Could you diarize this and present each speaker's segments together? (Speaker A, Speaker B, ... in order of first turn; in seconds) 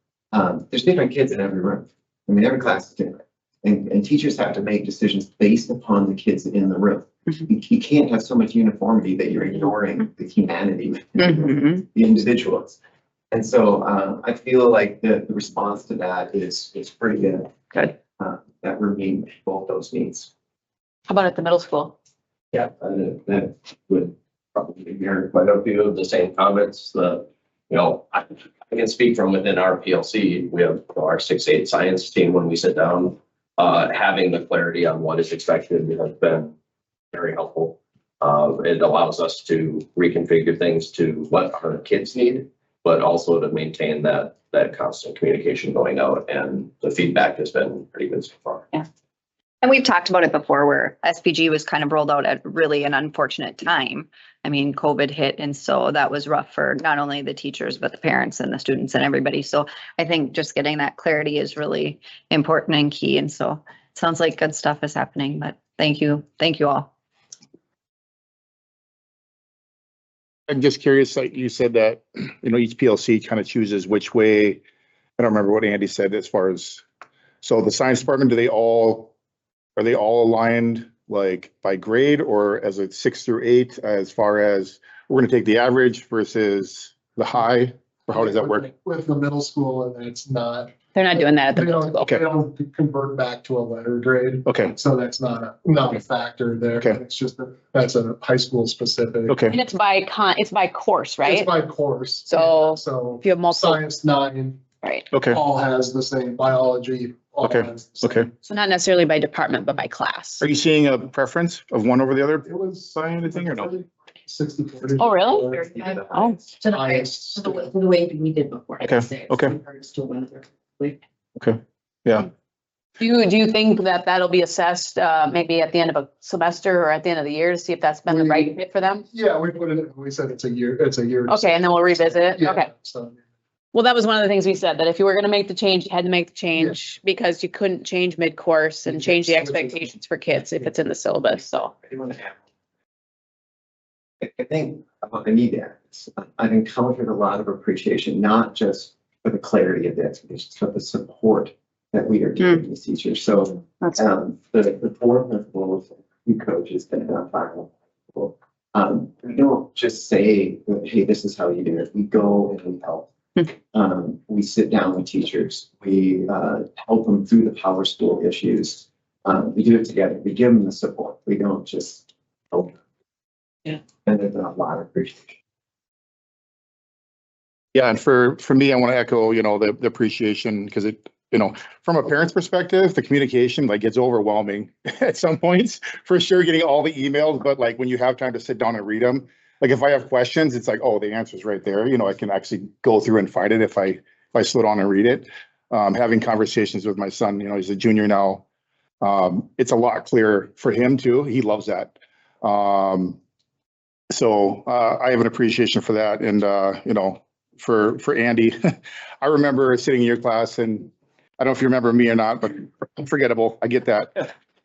Speaker A: 0.3-12.8, 13.3-17.6, 18.2-20.3, 22.5-25.3, 141.9-142.4, 144.2-163.1, 163.7-172.8, 174.1-175.4
Speaker B: 11.2-11.7, 49.8-66.9
Speaker C: 21.1-21.9, 91.0-92.2, 99.4-101.5, 102.3-103.8, 104.8-105.1, 108.5-110.4, 115.0-115.4, 116.1-116.4, 123.0-129.1, 131.3-132.7, 133.7-141.8
Speaker D: 25.3-36.5, 37.1-48.7
Speaker E: 70.5-74.6, 75.2-76.8, 77.4-79.1, 79.8-88.7, 94.5-94.7, 99.3-99.6, 105.1-105.4, 107.4-108.3, 110.4-113.7, 118.8-119.6, 121.4-122.3, 177.7-198.4, 199.0-203.2, 204.1-208.6, 209.2-214.1
Speaker F: 88.1-99.4, 101.2-104.6, 105.2-108.4, 112.5-115.7, 116.8-117.5, 128.1-128.4, 129.1-133.2, 136.5-136.8, 138.9-140.7
Speaker G: 115.3-121.0